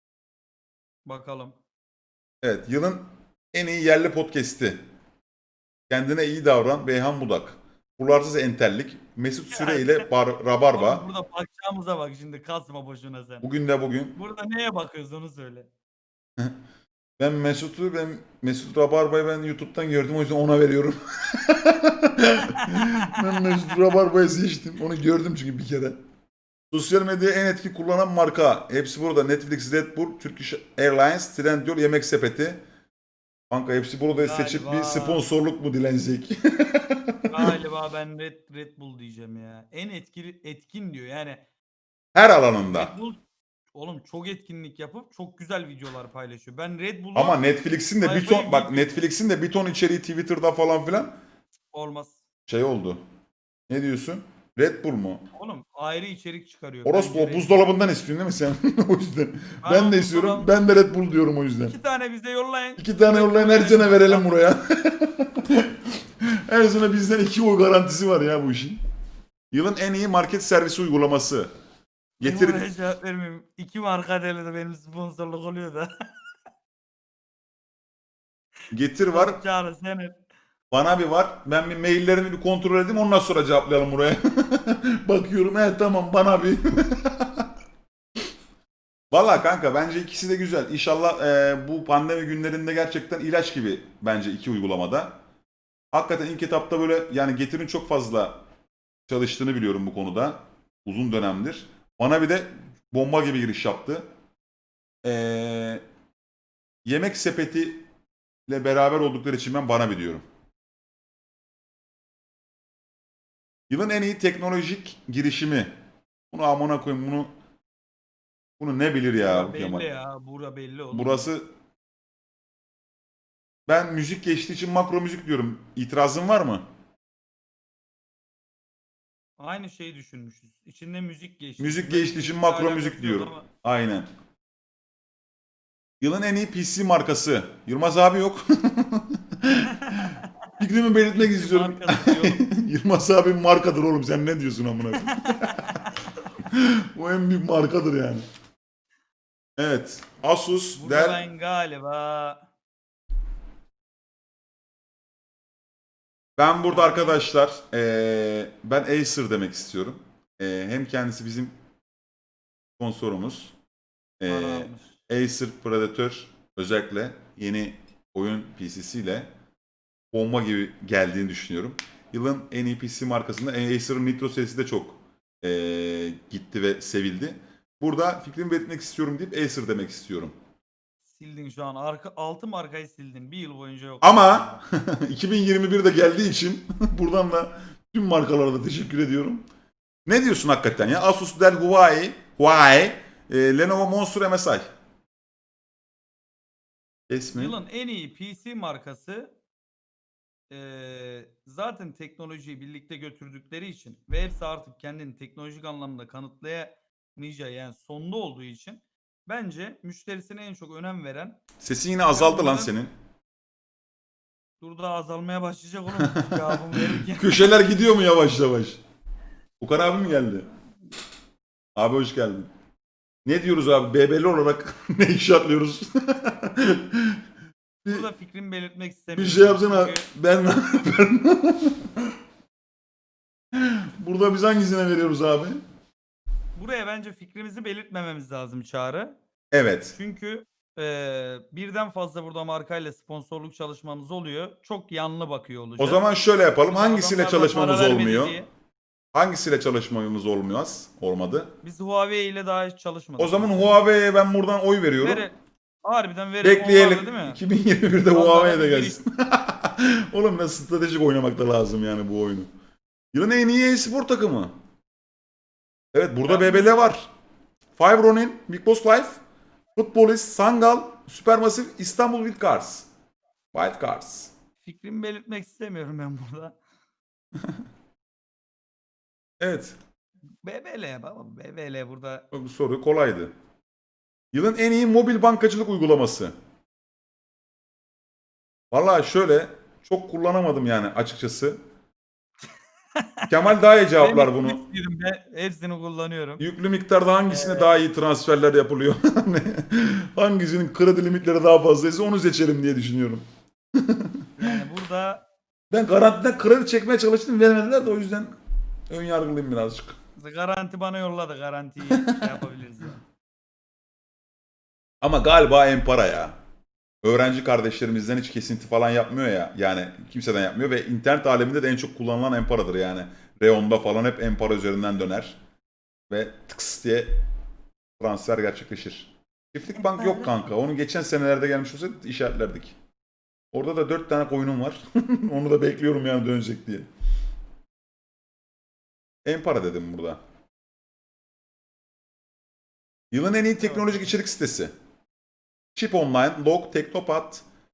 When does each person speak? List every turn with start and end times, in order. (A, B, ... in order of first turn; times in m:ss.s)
0:01.0-0:01.6 A
0:02.4-0:04.8 B
0:05.9-0:11.0 B
0:09.5-0:10.1 A
0:10.7-0:13.5 A
0:13.4-0:14.2 B
0:14.2-0:15.7 A
0:17.2-0:26.0 B
0:22.4-0:23.8 A
0:26.7-0:32.6 B
0:33.5-0:37.5 B
0:34.1-0:35.2 A
0:37.3-0:41.4 A
0:42.2-0:42.9 B
0:42.7-0:43.2 A
0:43.7-0:47.5 A
0:47.2-0:51.1 B
0:48.0-0:49.0 A
0:51.7-0:52.2 A
0:52.5-0:53.0 B
0:53.7-0:55.2 B
0:55.4-0:57.6 A
0:56.8-1:01.7 B
0:59.6-1:00.6 A
1:01.7-1:04.4 A
1:02.8-1:08.8 B
1:09.5-1:11.5 B
1:12.2-1:12.6 B
1:12.2-1:15.9 A
1:18.7-1:19.4 B
1:19.1-1:20.2 A
1:20.7-1:27.5 B
1:29.1-1:35.2 B
1:35.9-1:38.4 B
1:39.1-1:44.1 B
1:45.0-1:45.8 B
1:46.8-1:47.9 B
1:48.5-1:50.2 B
1:53.7-1:55.7 B
1:56.3-1:57.3 B
1:58.6-1:59.9 B
1:59.2-2:01.3 A
2:00.9-2:01.5 B
2:03.7-2:06.7 B
2:09.4-2:13.5 A
2:11.6-2:14.1 B
2:16.0-2:25.9 B
2:21.1-2:22.4 A
2:25.0-2:25.8 A
2:26.4-2:28.2 B
2:29.6-2:31.2 B
2:30.8-2:32.5 A
2:36.4-2:41.5 B
2:36.7-2:37.2 A
2:42.8-2:43.6 B
2:44.2-2:49.3 B
2:44.2-2:45.0 A
2:50.1-3:00.3 B
3:01.1-3:04.6 A
3:04.0-3:09.4 B
3:10.1-3:14.7 B
3:17.1-3:17.6 B
3:17.3-3:19.3 A
3:20.5-3:31.4 A
3:31.6-3:32.9 B
3:32.0-3:32.7 A
3:34.6-3:37.5 A
3:36.0-3:38.8 B
3:39.6-3:40.5 B
3:41.8-3:42.5 B
3:43.3-3:47.2 B
3:47.9-3:50.1 A
3:49.2-3:51.9 B
3:53.5-3:55.6 B
3:56.6-3:59.2 A
3:59.5-4:00.0 B
3:59.9-4:06.0 A
4:05.8-4:08.4 B
4:06.7-4:08.5 A
4:09.1-4:11.5 B
4:11.6-4:13.8 A
4:13.2-4:15.2 B
4:15.0-4:17.4 A
4:16.4-4:22.5 B
4:18.0-4:19.0 A
4:23.1-4:24.5 B
4:25.9-4:27.1 B
4:26.2-4:26.9 A
4:27.8-4:29.2 B
4:29.8-4:32.9 B
4:33.5-4:34.3 B
4:34.6-4:36.6 A
4:39.4-4:39.8 B
4:40.4-4:42.2 A
4:42.3-4:43.3 B
4:44.3-4:46.3 B
4:48.7-4:51.6 B
4:53.0-4:56.4 A
4:53.3-4:54.6 B
4:56.4-5:03.2 B
4:57.3-4:57.8 A
5:03.8-5:04.3 B
5:04.4-5:05.2 A
5:05.7-5:08.4 B
5:08.9-5:10.0 B
5:10.2-5:13.0 A
5:11.9-5:12.2 B
5:15.0-5:16.4 B
5:17.0-5:25.4 B
5:26.1-5:27.2 B
5:28.0-5:32.8 B
5:29.8-5:30.5 A
5:33.5-5:36.9 B
5:39.2-5:40.2 B
5:43.1-5:44.7 B
5:43.6-5:44.2 A
5:45.8-5:47.4 B